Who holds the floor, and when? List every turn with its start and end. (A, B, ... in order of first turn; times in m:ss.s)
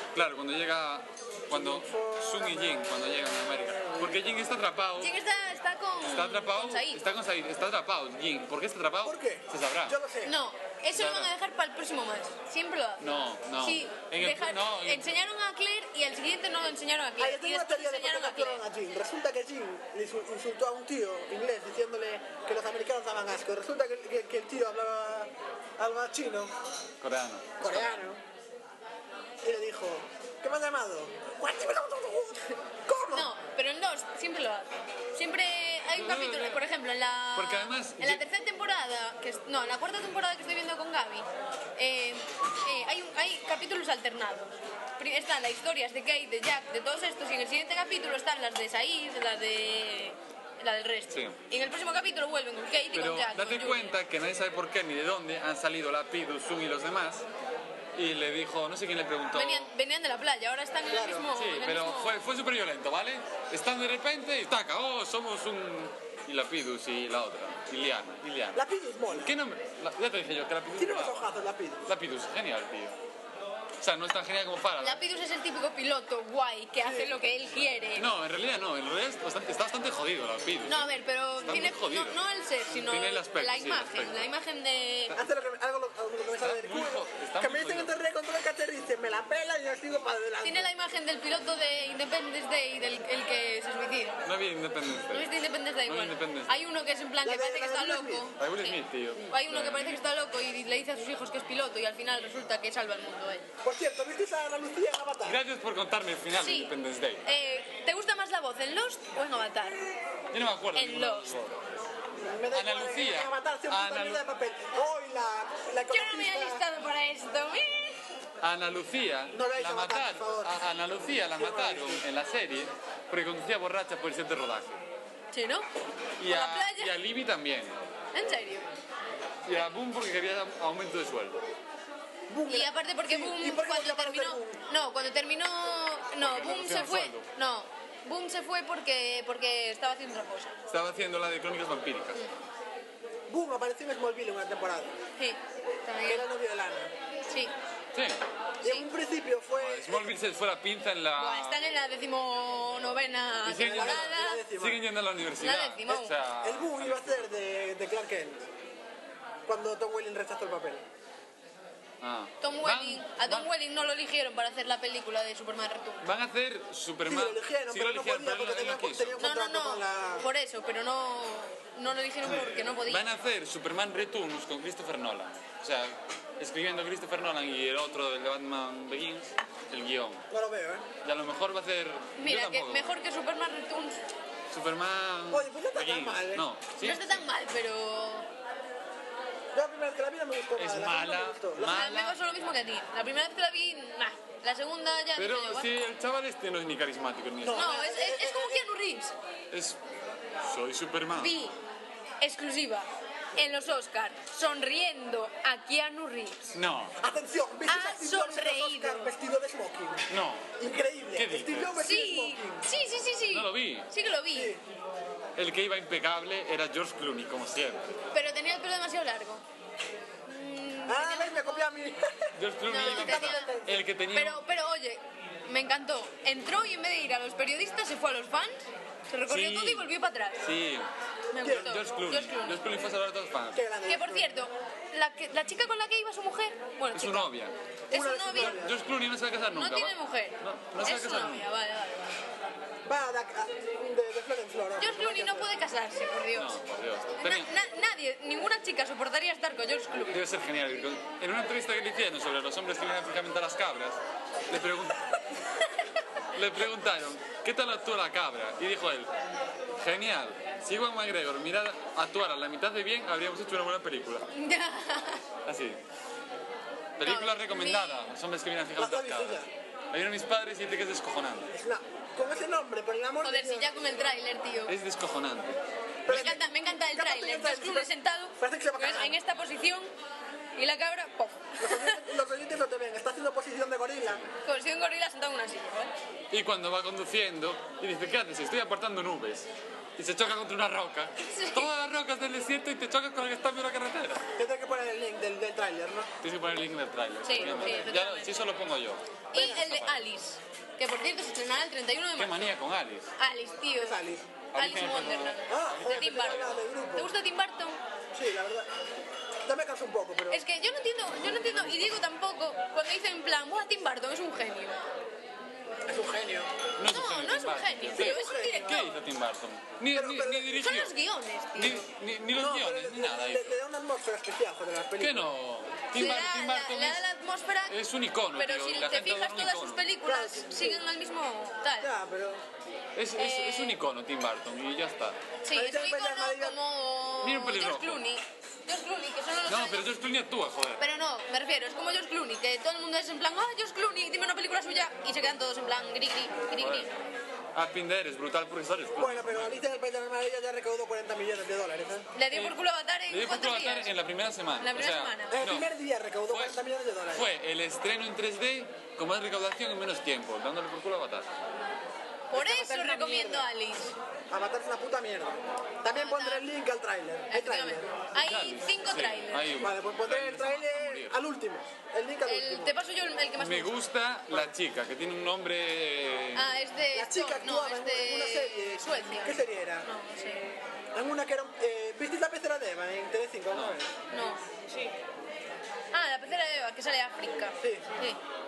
0:00.1-0:05.1 A
0:01.5-0:02.8 B
0:05.0-0:07.0 C
0:06.0-0:10.0 A
0:09.0-0:10.3 B
0:10.2-0:13.0 C
0:10.9-0:11.3 A
0:13.0-0:15.0 A
0:13.6-0:18.6 C
0:17.2-0:26.5 B
0:27.0-0:28.1 A
0:27.6-0:28.2 B
0:29.4-0:33.3 B
0:33.1-0:54.0 C
0:36.0-0:36.6 A
0:37.3-0:38.2 A
0:51.1-0:51.4 A
0:52.9-0:57.2 A
0:57.9-0:59.7 A
0:59.3-1:02.2 C
1:00.9-1:01.3 B
1:01.3-1:08.6 A
1:08.5-1:09.3 B
1:09.2-1:11.3 A
1:10.7-1:11.8 B
1:11.8-1:13.0 A
1:13.8-1:15.0 A
1:14.8-1:18.1 C
1:16.8-1:17.1 B
1:18.0-1:20.9 A
1:20.6-1:25.2 C
1:21.4-1:22.2 A
1:22.9-1:24.3 A
1:25.2-1:30.7 B
1:26.4-1:27.9 A
1:30.4-1:34.2 C
1:34.2-1:35.3 A
1:35.1-1:38.8 C
1:35.8-1:36.6 A
1:37.2-1:38.3 B
1:38.4-1:40.0 A
1:39.3-1:43.4 C
1:43.6-1:45.4 B
1:45.2-1:47.2 A
1:46.3-1:46.7 C
1:47.2-1:49.8 C
1:50.3-1:51.6 A
1:50.7-1:51.3 C
1:52.2-1:56.6 B
1:52.5-1:54.2 A
1:55.9-1:58.0 C
1:58.4-2:04.8 A
1:59.3-2:00.6 B
2:01.3-2:02.0 B
2:05.3-2:05.7 C
2:06.2-2:07.8 A
2:06.2-2:06.9 C
2:08.1-2:08.6 C
2:09.4-2:11.4 A
2:12.3-2:14.6 B
2:12.5-2:20.5 C
2:16.2-2:17.2 A
2:20.7-2:22.2 A
2:23.3-2:24.9 B
2:25.2-2:26.3 C
2:26.1-2:26.9 B
2:27.3-2:27.5 C
2:28.6-2:30.2 B
2:29.6-2:31.6 A
2:31.2-2:34.4 C
2:33.4-2:37.3 A
2:33.7-2:34.8 B
2:35.4-2:36.1 C
2:36.4-2:38.4 B
2:39.5-2:40.8 B
2:42.0-2:43.5 A
2:42.4-2:46.0 C
2:46.0-2:49.2 A
2:47.0-2:50.2 B
2:49.2-2:53.0 C
2:52.3-3:00.2 A
3:00.3-3:00.9 B
3:01.0-3:03.0 A
3:02.2-3:04.0 C
3:04.5-3:07.2 A
3:05.3-3:06.5 B
3:06.8-3:08.3 C
3:09.5-3:11.7 B
3:10.6-3:12.2 A
3:11.6-3:15.8 C
3:15.2-3:17.7 A
3:17.4-3:18.7 B
3:17.5-3:19.1 C
3:19.5-3:19.8 A
3:20.4-3:21.4 A
3:21.1-3:21.6 C
3:22.2-3:26.6 C
3:26.5-3:27.0 A
3:27.0-3:32.6 B
3:27.7-3:29.1 C
3:30.1-3:30.5 A
3:31.1-3:31.8 A
3:31.8-3:34.5 C
3:33.3-3:33.9 A
3:34.3-3:34.6 B
3:35.4-3:37.9 A
3:38.1-3:39.4 C
3:40.2-3:41.7 C
3:40.8-3:43.8 B
3:42.4-3:44.4 A
3:42.7-3:43.6 C
3:44.1-3:48.6 C
3:49.1-3:50.4 C
3:49.3-3:49.9 A
3:50.4-3:50.9 A
3:51.3-3:52.6 C
3:51.4-3:51.8 B
3:51.4-3:53.6 A
3:53.5-3:54.3 B
3:53.9-3:57.3 C
3:56.9-3:57.5 A
3:57.9-3:58.8 B
3:57.9-3:58.6 C
3:58.3-4:01.5 A
3:59.5-4:02.1 C
4:02.8-4:05.5 B
4:04.8-4:06.6 C
4:06.3-4:07.5 A
4:07.2-4:10.2 C
4:10.1-4:15.1 A
4:16.3-4:19.1 A
4:19.8-4:24.3 A
4:24.3-4:25.2 C
4:25.4-4:25.8 A
4:27.0-4:31.5 A
4:27.0-4:28.1 C
4:28.8-4:29.5 B
4:31.5-4:34.0 B
4:33.2-4:34.8 C
4:34.7-4:35.6 A
4:36.0-4:39.2 B
4:36.1-4:39.9 C
4:40.6-4:42.0 C
4:41.6-4:44.2 B
4:44.4-4:45.9 C
4:46.3-4:54.2 A
4:51.2-4:51.7 C
4:54.4-4:56.1 B
4:56.2-5:00.0 A
4:57.2-4:58.3 C
4:57.4-4:57.8 B
4:59.3-5:02.4 C
4:59.4-4:59.6 B
5:02.2-5:03.1 A
5:03.2-5:04.0 C
5:03.8-5:04.2 B
5:04.5-5:05.4 A
5:04.5-5:07.8 C
5:05.5-5:07.1 B
5:08.1-5:08.7 B
5:09.4-5:10.4 B
5:10.3-5:14.8 C
5:11.2-5:11.9 A
5:15.8-5:16.5 B
5:16.8-5:21.0 A
5:16.8-5:18.9 C
5:17.9-5:18.8 B
5:19.9-5:20.5 B
5:20.5-5:21.8 C
5:21.5-5:23.6 A
5:22.3-5:25.3 B
5:25.0-5:27.0 A
5:25.9-5:27.8 C
5:27.7-5:29.9 A
5:28.3-5:31.9 C
5:30.0-5:30.8 B
5:31.8-5:32.4 B
5:32.9-5:35.2 A
5:33.2-5:33.8 C
5:35.4-5:39.9 C
5:35.5-5:36.6 B
5:37.2-5:38.0 A
5:39.5-5:40.8 A
5:40.8-5:46.9 C
5:46.6-5:46.9 A
5:47.5-5:49.5 A
5:49.0-5:52.0 B
5:52.1-5:53.9 C
5:53.1-5:55.7 A
5:54.6-5:55.4 C
5:55.3-5:57.3 B
5:56.3-5:56.6 A
5:57.1-6:01.3 A
6:02.3-6:03.9 C
6:02.3-6:03.5 B
6:04.3-6:07.9 B
6:05.9-6:06.5 C
6:07.3-6:09.7 C
6:08.2-6:11.2 A
6:09.6-6:12.7 B
6:12.2-6:13.8 C
6:13.4-6:16.5 A
6:16.3-6:20.6 C
6:16.9-6:19.9 B
6:20.9-6:23.9 B
6:23.5-6:23.8 A
6:24.1-6:24.9 C
6:25.9-6:28.2 C